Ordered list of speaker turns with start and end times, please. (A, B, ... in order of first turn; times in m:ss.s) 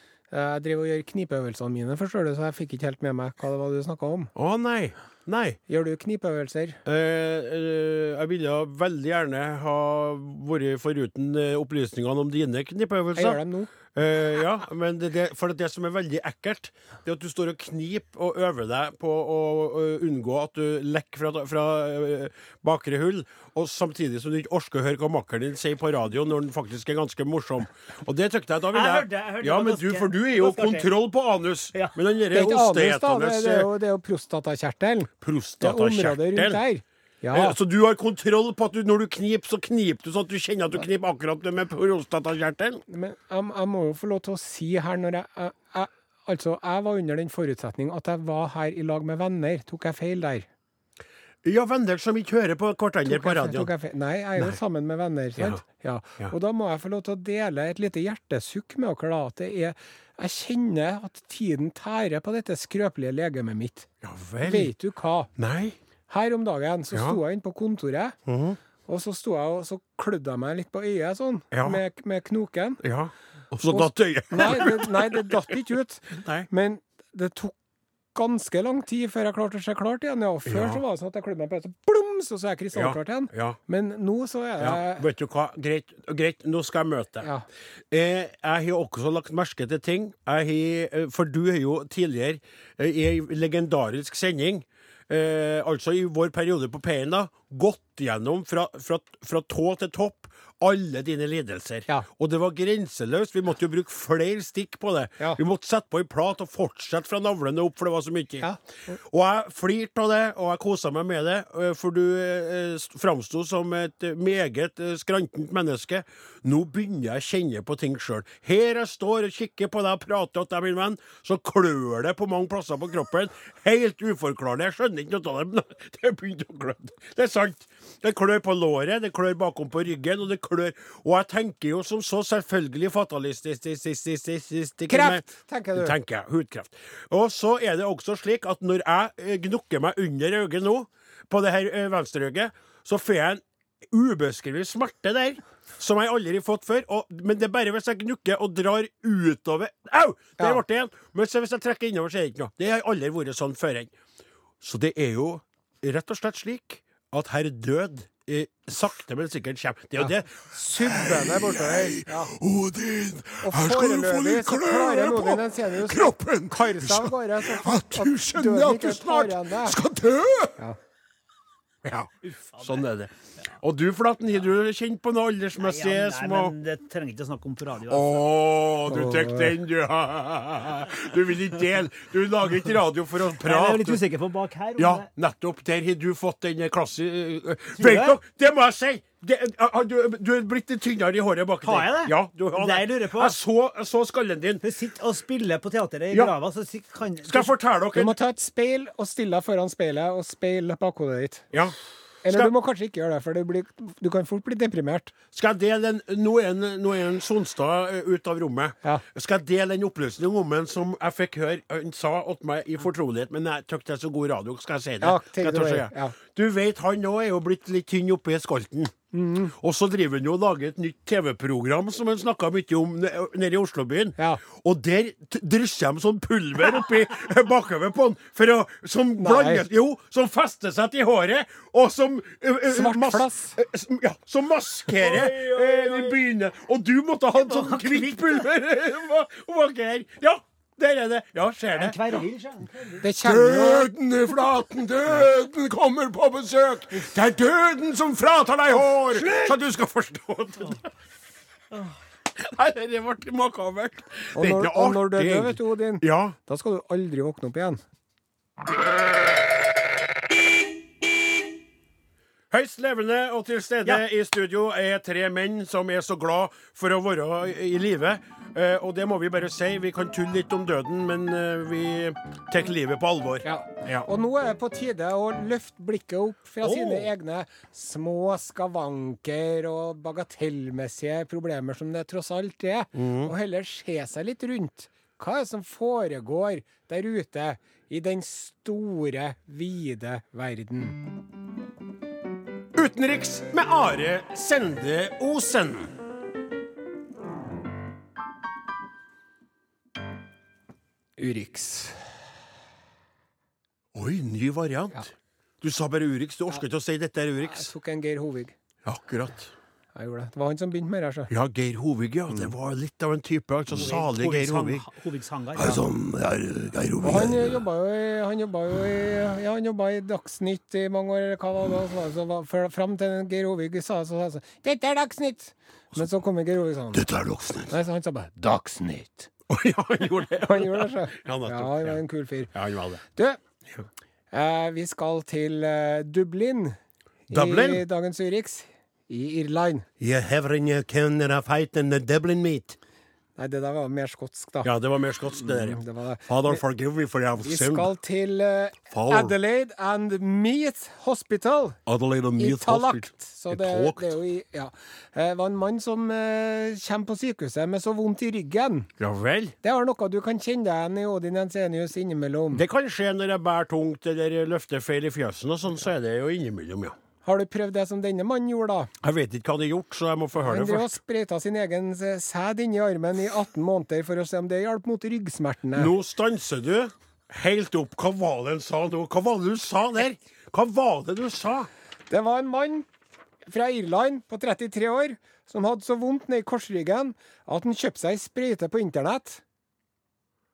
0:00.3-0:04.3 A
0:04.4-0:05.6 B
0:05.7-0:06.8 A
0:06.9-0:13.4 B
0:13.2-0:13.7 A
0:13.9-0:33.7 B
0:28.7-0:30.9 C
0:32.3-0:37.6 A
0:35.2-0:36.6 B
0:37.3-0:42.8 B
0:42.9-0:50.5 A
0:51.4-0:53.7 B
0:53.1-1:03.9 A
0:55.4-0:55.6 B
1:04.0-1:04.7 B
1:04.4-1:05.3 A
1:05.4-1:05.8 B
1:06.1-1:08.2 A
1:06.9-1:07.2 B
1:08.3-1:08.6 B
1:08.9-1:12.8 A
1:11.5-1:11.8 B
1:12.8-1:15.6 B
1:13.7-1:17.6 A
1:16.1-1:16.5 B
1:18.1-1:25.0 A
1:20.5-1:20.8 B
1:22.7-1:23.6 B
1:24.6-1:27.3 B
1:27.9-1:48.5 B
1:49.0-2:33.9 B
2:14.9-2:16.0 A
2:34.6-2:50.6 B
2:40.0-2:42.3 A
2:43.4-2:49.8 A
2:51.8-2:56.6 B
2:52.4-2:52.8 C
2:55.6-2:58.2 C
2:57.9-3:04.0 B
2:58.9-2:59.6 A
3:03.3-3:05.1 C
3:04.8-3:14.6 B
3:07.8-3:08.2 C
3:11.6-3:13.4 C
3:14.6-3:17.5 C
3:17.2-3:18.2 B
3:17.9-3:21.5 A
3:22.2-3:25.1 A
3:22.3-3:22.5 B
3:25.3-3:38.9 B
3:35.0-3:36.2 A
3:39.1-3:39.5 A
3:39.5-4:02.2 B
3:44.2-3:44.4 A
3:49.2-3:49.6 A
3:52.7-3:53.6 A
3:54.9-3:56.2 C
3:57.4-3:58.4 C
4:01.8-4:03.0 C
4:03.0-4:03.9 A
4:03.2-4:10.8 B
4:12.4-4:16.4 B
4:14.4-4:17.8 A
4:22.5-4:34.1 B
4:33.4-4:51.0 A
4:43.0-4:43.3 B
4:52.7-4:56.0 B
5:01.2-5:02.2 A
5:03.9-5:05.1 B
5:05.6-5:07.7 B
5:07.4-5:08.6 A
5:08.8-5:09.5 B
5:10.0-5:11.3 A
5:11.3-5:14.9 B
5:13.7-5:15.8 C
5:15.6-5:17.6 B
5:17.0-5:27.1 A
5:26.9-5:27.8 B
5:27.7-5:29.3 A
5:29.5-5:32.0 B
5:30.4-5:32.5 A
5:32.5-5:33.0 B
5:33.1-5:33.4 A
5:34.3-5:36.8 A
5:37.3-5:39.9 A
5:37.3-5:37.8 B
5:40.0-5:42.8 B
5:43.4-5:44.7 A
5:44.6-5:47.9 B
5:45.4-5:46.6 A
5:47.4-5:51.8 A
5:48.9-5:49.4 B
5:51.9-5:54.2 B
5:52.4-5:58.9 A
5:59.0-5:59.6 B
5:59.6-6:02.6 A
6:02.5-6:07.0 B
6:07.2-6:08.9 A
6:09.0-6:11.0 B
6:10.4-6:15.9 A
6:15.8-6:21.7 B
6:22.1-6:22.9 A
6:23.5-6:29.4 A